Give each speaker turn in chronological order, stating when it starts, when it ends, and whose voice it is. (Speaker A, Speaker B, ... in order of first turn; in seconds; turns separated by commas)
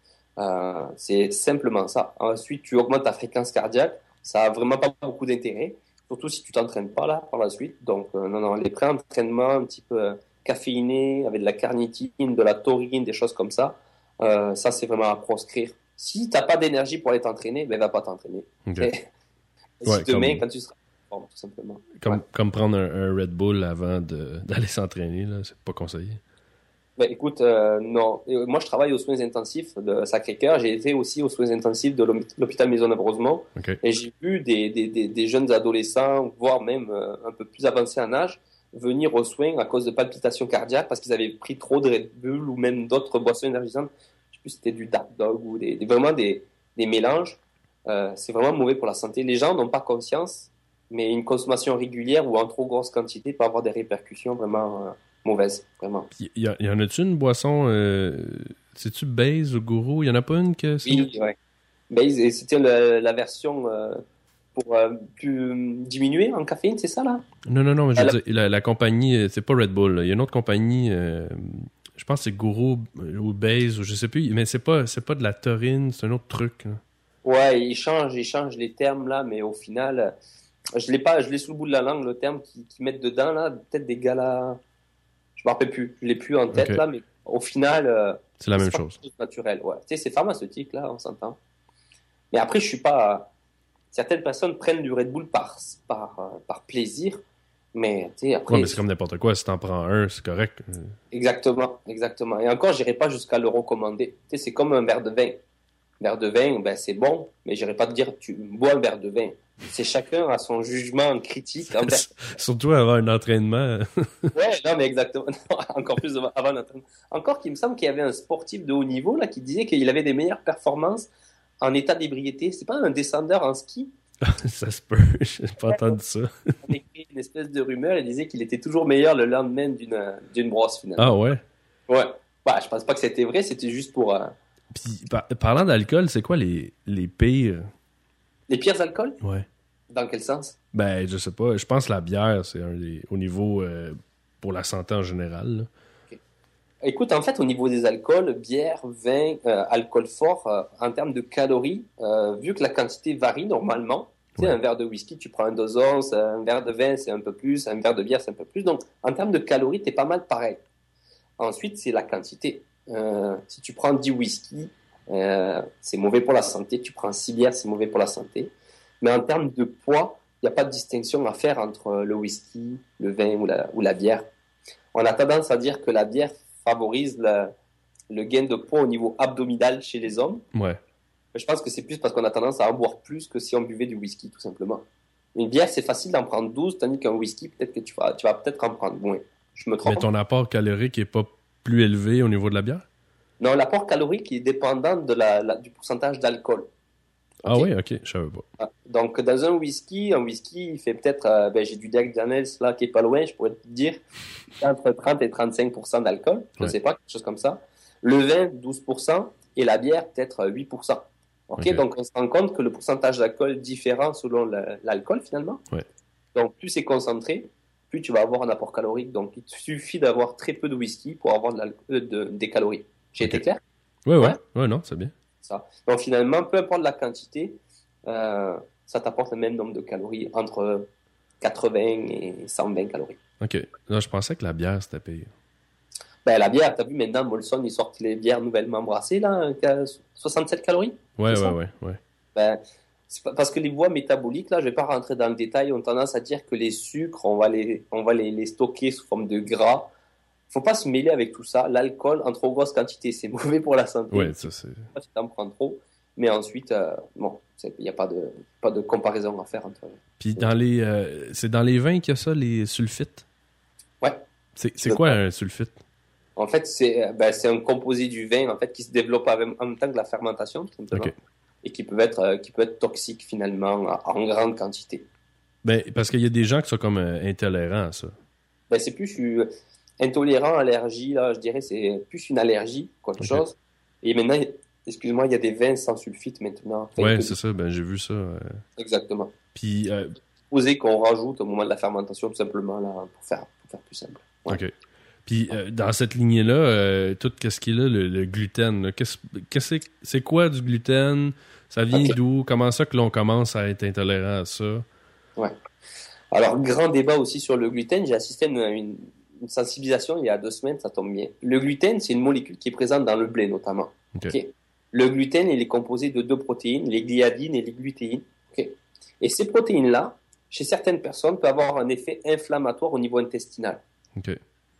Speaker A: 0.4-19.0, Speaker B: 18.6-18.9, Speaker A: 19.8-22.2, Speaker B: 19.8-20.4, Speaker B: 21.9-26.2, Speaker A: 27.0-56.1, Speaker B: 56.1-61.1, Speaker A: 60.8-61.4, Speaker A: 61.9-64.0, Speaker A: 64.5-67.2, Speaker B: 67.4-76.8, Speaker A: 77.2-80.1, Speaker A: 80.8-84.6, Speaker A: 85.4-91.4, Speaker B: 86.5-86.8, Speaker B: 88.4-89.0, Speaker A: 92.3-93.3, Speaker A: 93.9-97.2, Speaker A: 97.7-98.8, Speaker B: 98.5-101.0, Speaker A: 101.1-105.4, Speaker A: 106.0-112.1, Speaker B: 111.8-114.3, Speaker A: 114.3-121.1, Speaker A: 121.6-123.9, Speaker B: 124.2-126.7, Speaker A: 125.7-125.9, Speaker A: 126.6-131.2, Speaker B: 131.0-131.4, Speaker A: 131.9-134.3, Speaker B: 134.7-137.7, Speaker A: 138.5-139.2, Speaker B: 139.2-139.5, Speaker A: 139.9-140.6, Speaker B: 140.7-145.7, Speaker A: 146.8-160.6, Speaker A: 161.4-174.2, Speaker A: 174.9-177.5, Speaker A: 178.1-180.4, Speaker B: 180.5-180.8, Speaker A: 181.3-184.8, Speaker A: 185.3-190.1, Speaker B: 189.8-192.8, Speaker A: 193.4-196.7, Speaker A: 197.4-197.7, Speaker B: 197.4-198.5, Speaker A: 198.6-204.0, Speaker A: 204.6-215.6, Speaker B: 211.6-211.8, Speaker A: 216.3-223.6, Speaker B: 224.0-225.1, Speaker A: 225.4-230.9, Speaker A: 231.4-233.2, Speaker B: 233.4-235.3, Speaker A: 236.2-241.6, Speaker B: 241.2-242.0, Speaker A: 242.3-249.9, Speaker A: 250.5-260.4, Speaker B: 254.1-254.9, Speaker B: 260.2-263.2, Speaker B: 264.6-265.8, Speaker A: 264.8-265.1, Speaker A: 266.4-275.1, Speaker B: 275.6-278.1, Speaker A: 278.7-287.4, Speaker B: 287.0-288.6, Speaker A: 288.8-289.3, Speaker B: 289.5-290.1, Speaker A: 290.5-294.6, Speaker B: 295.2-304.8, Speaker A: 306.3-323.8